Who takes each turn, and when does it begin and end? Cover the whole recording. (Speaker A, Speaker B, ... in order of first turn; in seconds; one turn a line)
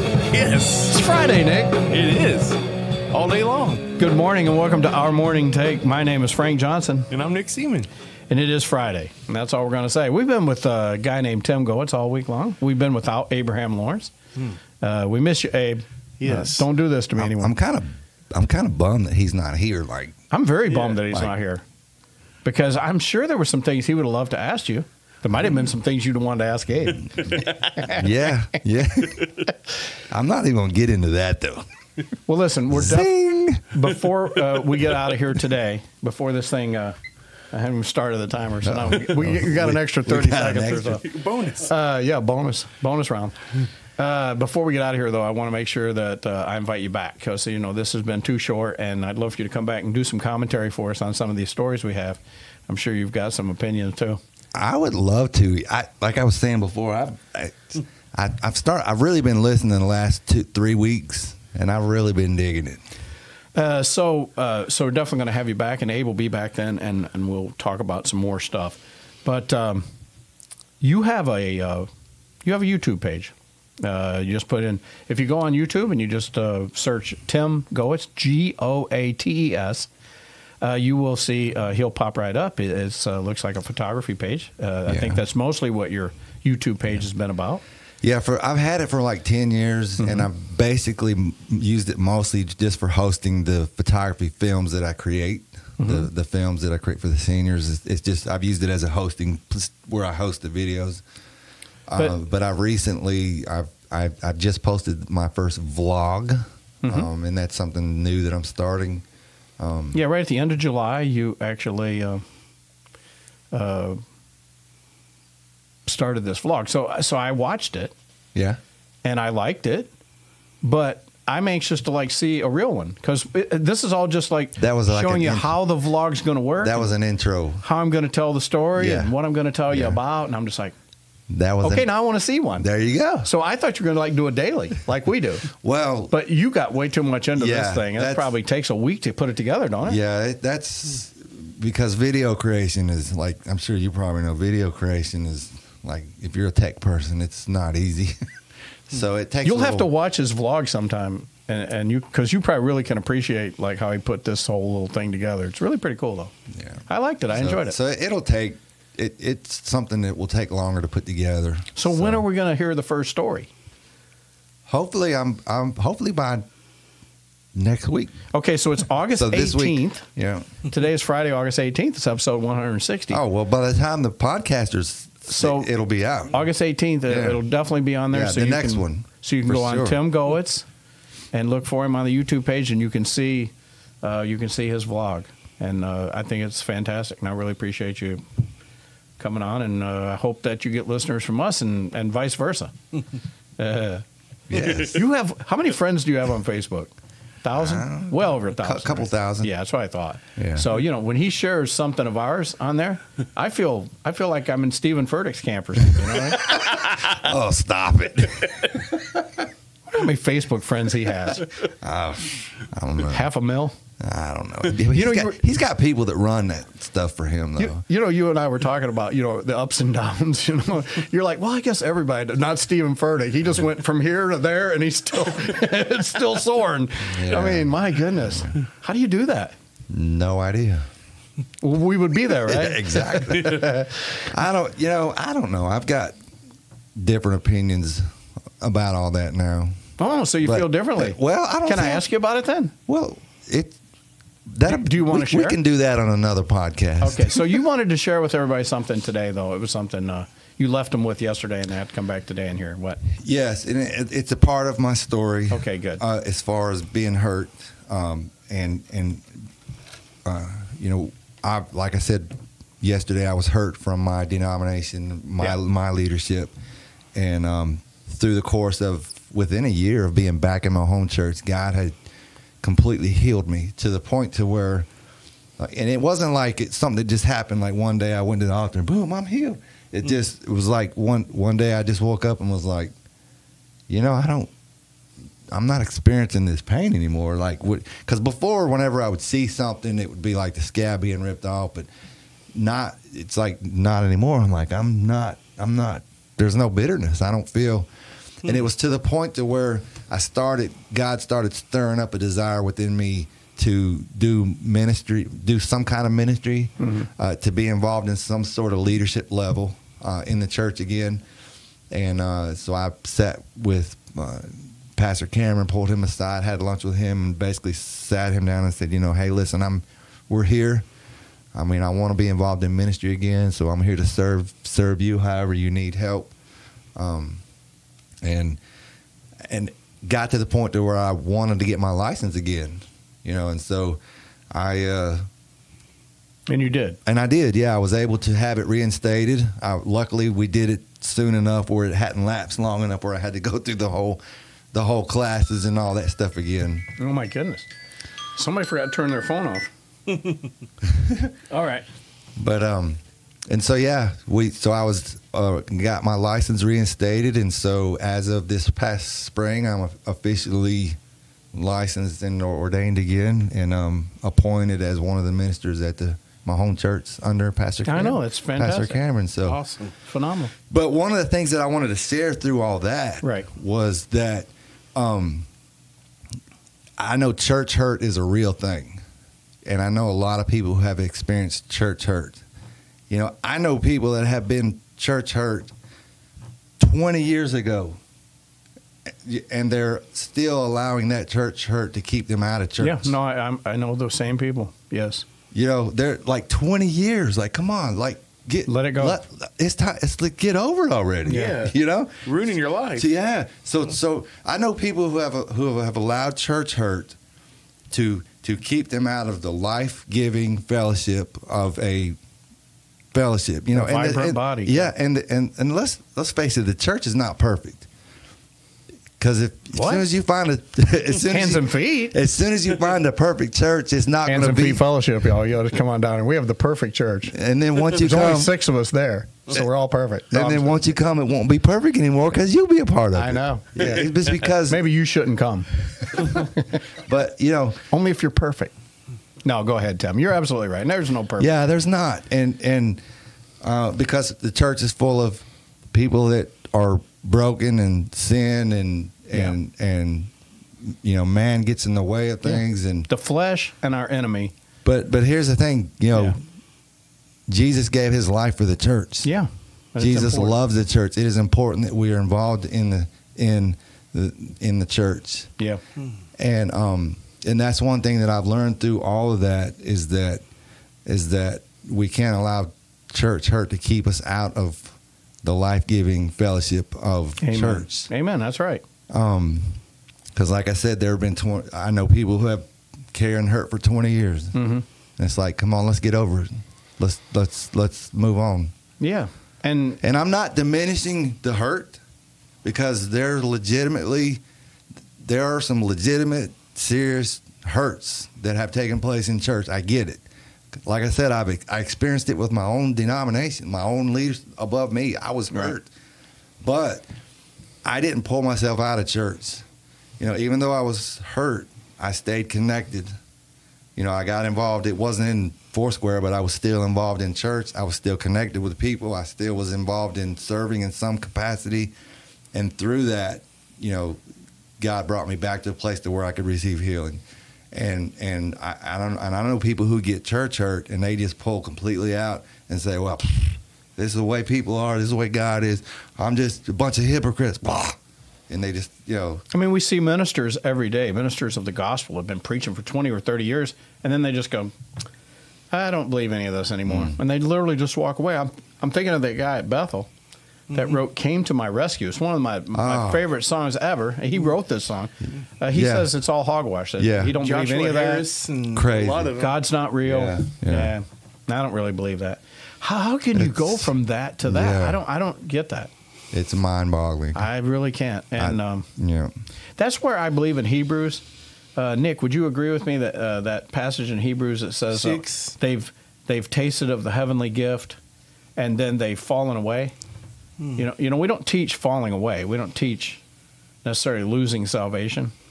Speaker A: 0.3-1.0
Speaker B: 0.8-1.8
Speaker A: 1.9-2.6
Speaker A: 3.1-3.9
Speaker B: 4.0-7.1
Speaker A: 7.1-7.9
Speaker B: 8.3-14.1
Speaker B: 14.8-17.6
Speaker A: 16.2-16.7
Speaker C: 17.2-20.2
Speaker B: 20.3-21.6
Speaker B: 22.4-28.0
Speaker C: 27.9-29.2
Speaker C: 30.1-31.7
Speaker B: 32.3-37.0
Speaker C: 32.7-33.7
Speaker B: 37.5-41.0
Speaker C: 38.6-41.0
Speaker A: 40.9-41.7
Speaker B: 41.6-43.4
Speaker B: 44.0-54.2
Speaker C: 54.5-62.8
Speaker B: 63.5-69.8
Speaker B: 70.8-71.9
Speaker B: 72.4-79.9
Speaker B: 80.6-87.6
Speaker C: 84.9-85.2
Speaker C: 88.0-101.0
Speaker B: 90.0-90.3
Speaker B: 95.8-96.1
Speaker C: 101.9-109.0
Speaker B: 106.8-107.1
Speaker C: 109.6-110.0
Speaker B: 109.9-112.2
Speaker B: 113.5-114.0
Speaker B: 115.9-117.9
Speaker B: 119.0-119.9
Speaker B: 120.6-126.9
Speaker C: 124.6-125.5
Speaker C: 126.6-127.6
Speaker B: 127.6-130.8
Speaker C: 128.8-129.2
Speaker C: 129.7-130.0
Speaker C: 131.3-131.9
Speaker B: 131.6-132.7
Speaker C: 132.6-133.3
Speaker B: 133.2-135.5
Speaker C: 135.6-136.1
Speaker B: 136.1-140.0
Speaker C: 137.4-138.3
Speaker C: 139.8-148.2
Speaker C: 148.9-149.9
Speaker B: 149.4-156.3
Speaker C: 156.6-162.2
Speaker B: 156.9-157.8
Speaker B: 161.8-163.5
Speaker C: 164.7-166.5
Speaker C: 167.6-168.1
Speaker B: 168.3-170.1
Speaker C: 169.2-170.5
Speaker B: 170.7-173.2
Speaker C: 173.1-176.4
Speaker B: 175.3-175.7
Speaker B: 176.3-180.7
Speaker C: 177.1-177.4
Speaker C: 178.1-180.0
Speaker B: 181.3-188.2
Speaker B: 189.2-192.8
Speaker B: 193.6-194.0
Speaker C: 194.5-195.0
Speaker B: 194.6-196.9
Speaker B: 197.4-206.8
Speaker C: 197.6-199.5
Speaker C: 200.4-200.7
Speaker C: 206.1-209.4
Speaker B: 209.9-211.5
Speaker C: 211.8-213.3
Speaker B: 213.1-213.8
Speaker C: 214.0-217.8
Speaker B: 214.9-215.4
Speaker B: 217.6-229.6
Speaker C: 227.1-227.7
Speaker C: 229.9-230.9
Speaker B: 231.6-233.9
Speaker C: 232.5-236.1
Speaker C: 237.0-238.1
Speaker C: 238.6-239.8
Speaker B: 240.0-242.7
Speaker C: 240.4-242.1
Speaker C: 242.9-243.8
Speaker C: 244.5-247.6
Speaker B: 244.7-245.6
Speaker B: 247.0-253.0
Speaker C: 253.2-259.3
Speaker B: 255.5-256.0
Speaker C: 260.2-266.5
Speaker C: 267.1-271.9
Speaker C: 272.6-274.9
Speaker C: 275.6-282.9
Speaker C: 283.9-284.5
Speaker C: 285.5-291.9
Speaker C: 292.6-297.9
Speaker C: 298.4-311.2
Speaker B: 306.8-307.1
Speaker C: 311.9-320.9
Speaker C: 321.6-326.4
Speaker C: 327.0-327.4
Speaker C: 328.2-328.6
Speaker C: 329.5-334.0
Speaker C: 334.5-335.2
Speaker B: 336.5-337.0
Speaker C: 337.1-344.2
Speaker C: 344.7-346.9
Speaker B: 347.0-347.7
Speaker B: 348.4-349.7
Speaker B: 351.5-351.9
Speaker C: 352.4-361.0
Speaker C: 361.5-369.6
Speaker B: 367.9-369.0
Speaker A: 369.4-369.9
Speaker B: 370.0-370.5
Speaker C: 370.7-375.5
Speaker B: 373.2-373.5
Speaker C: 377.0-379.0
Speaker C: 379.7-382.4
Speaker C: 383.1-385.7
Speaker C: 386.8-388.0
Speaker C: 389.2-393.2
Speaker B: 392.8-395.2
Speaker C: 395.5-402.3
Speaker B: 398.7-399.2
Speaker B: 401.3-401.6
Speaker A: 401.3-401.7
Speaker A: 402.2-403.1
Speaker C: 402.9-407.2
Speaker C: 407.9-412.2
Speaker C: 413.1-417.9
Speaker B: 413.7-414.9
Speaker C: 419.2-424.8
Speaker B: 419.7-420.1
Speaker B: 421.2-422.1
Speaker B: 424.2-427.4
Speaker C: 427.3-428.5
Speaker B: 427.9-430.8
Speaker C: 430.3-434.8
Speaker B: 433.1-434.1
Speaker B: 434.6-436.6
Speaker C: 437.0-437.8
Speaker B: 437.9-438.7
Speaker B: 439.4-441.5
Speaker C: 441.4-443.0
Speaker C: 443.6-453.1
Speaker B: 452.4-454.5
Speaker C: 454.8-456.4
Speaker B: 456.1-456.4
Speaker C: 457.5-459.3
Speaker B: 459.2-460.6
Speaker C: 460.0-465.5
Speaker C: 466.4-470.4
Speaker C: 471.1-478.1
Speaker B: 477.4-478.8
Speaker C: 479.1-479.8
Speaker C: 480.4-484.6
Speaker B: 484.5-484.8
Speaker C: 485.2-488.7
Speaker B: 489.0-490.0
Speaker C: 490.0-492.0
Speaker C: 492.6-494.4
Speaker C: 495.2-500.2
Speaker C: 500.9-505.9
Speaker C: 506.6-507.1
Speaker C: 507.9-509.6
Speaker C: 510.2-513.1
Speaker C: 514.0-521.9
Speaker C: 522.5-524.2
Speaker C: 524.8-538.0
Speaker C: 538.5-539.4
Speaker B: 539.5-544.7
Speaker B: 545.7-550.1
Speaker C: 546.9-547.2
Speaker A: 550.7-551.0
Speaker B: 550.7-558.3
Speaker C: 552.7-553.2
Speaker C: 555.7-556.1
Speaker C: 557.0-557.4
Speaker A: 557.3-559.6
Speaker C: 558.7-559.3
Speaker B: 559.4-565.9
Speaker C: 560.0-560.9
Speaker C: 563.3-563.9
Speaker C: 564.4-565.0
Speaker C: 566.3-567.5
Speaker B: 567.3-568.9
Speaker C: 568.4-569.3
Speaker B: 569.8-571.2
Speaker B: 571.8-578.0
Speaker A: 574.9-575.6
Speaker B: 578.6-580.0
Speaker B: 580.8-583.2
Speaker B: 583.8-585.3